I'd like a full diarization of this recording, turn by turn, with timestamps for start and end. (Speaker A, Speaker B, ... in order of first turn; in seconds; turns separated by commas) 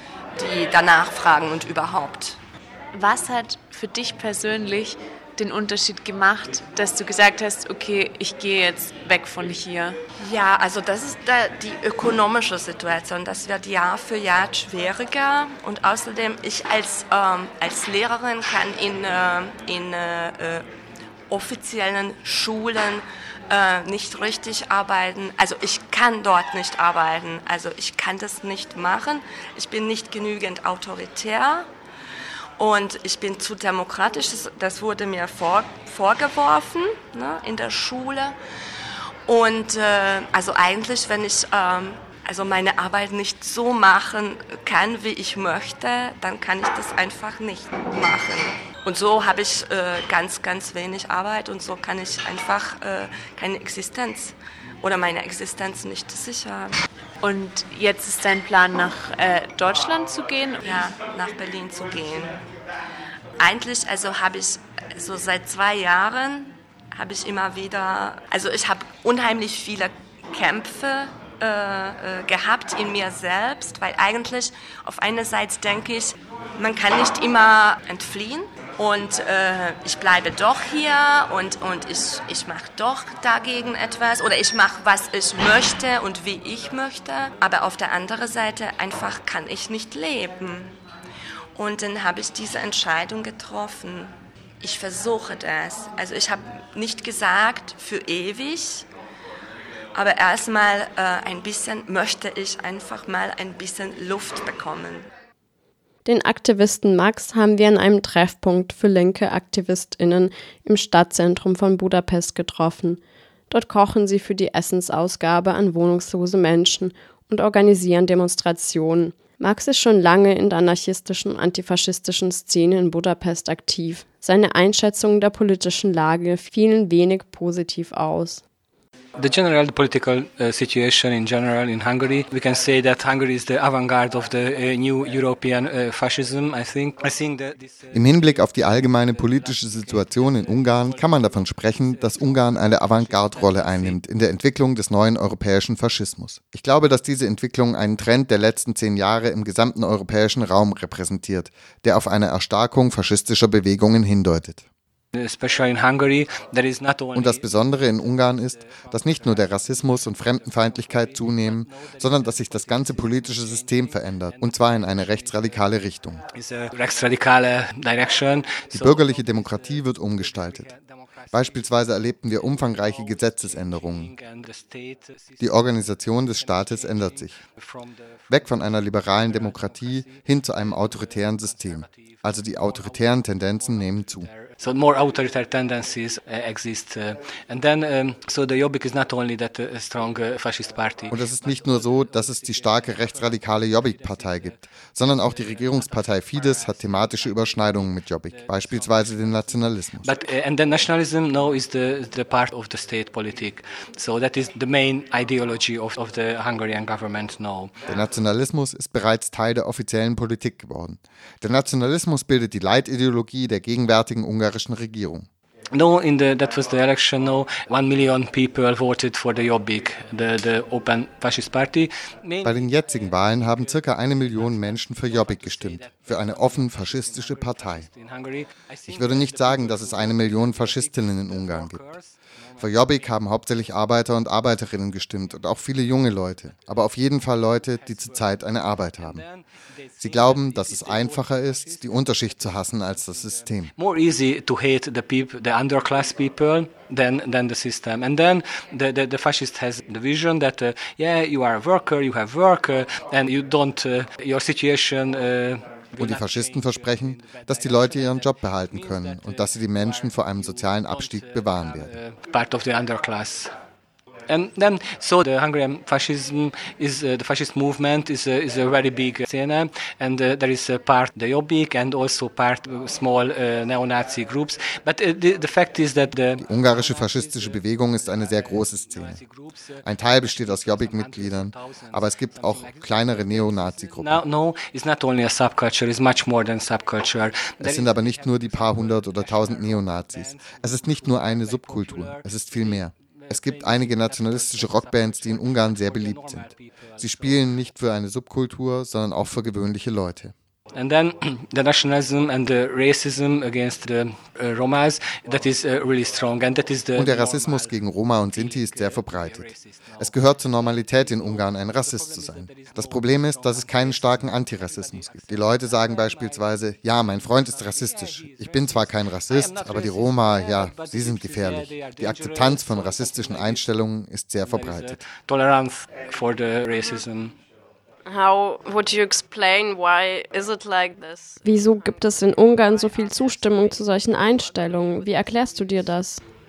Speaker A: 0.3-2.4, Speaker B: 2.9-10.0, Speaker A: 10.2-20.6, Speaker A: 21.3-31.7, Speaker A: 32.6-38.4, Speaker A: 39.2-56.8, Speaker B: 57.2-60.6, Speaker A: 60.6-62.4, Speaker A: 63.4-90.8, Speaker A: 91.5-98.8, Speaker A: 99.9-105.1, Speaker C: 106.0-128.4, Speaker D: 129.2-138.3, Speaker E: 137.9-154.6, Speaker D: 138.9-144.0, Speaker D: 155.1-157.4, Speaker E: 157.1-166.2, Speaker D: 158.8-159.3, Speaker D: 161.8-163.7, Speaker D: 166.3-169.6, Speaker E: 168.7-170.7, Speaker E: 171.3-174.1, Speaker D: 173.4-175.4, Speaker E: 175.4-177.4, Speaker D: 177.6-177.9, Speaker E: 178.3-184.3, Speaker D: 179.3-179.7, Speaker D: 184.3-192.2, Speaker E: 191.1-200.1, Speaker D: 198.4-198.8, Speaker D: 200.0-207.7, Speaker E: 207.9-215.3, Speaker D: 215.7-222.6, Speaker E: 222.4-227.9, Speaker D: 225.1-232.1, Speaker E: 228.9-231.8, Speaker E: 232.6-239.2, Speaker D: 239.1-239.4, Speaker D: 240.0-241.5, Speaker E: 240.0-243.7, Speaker D: 243.7-263.5, Speaker E: 256.0-261.9, Speaker D: 264.3-277.3, Speaker E: 276.4-279.2, Speaker E: 279.8-284.2, Speaker D: 280.1-292.2, Speaker E: 287.6-300.3, Speaker D: 293.3-297.0, Speaker D: 300.7-307.7, Speaker E: 306.9-325.0, Speaker D: 308.4-310.1, Speaker D: 310.7-316.3, Speaker D: 317.6-323.6, Speaker D: 324.4-327.3, Speaker F: 328.1-331.4, Speaker C: 331.4-336.2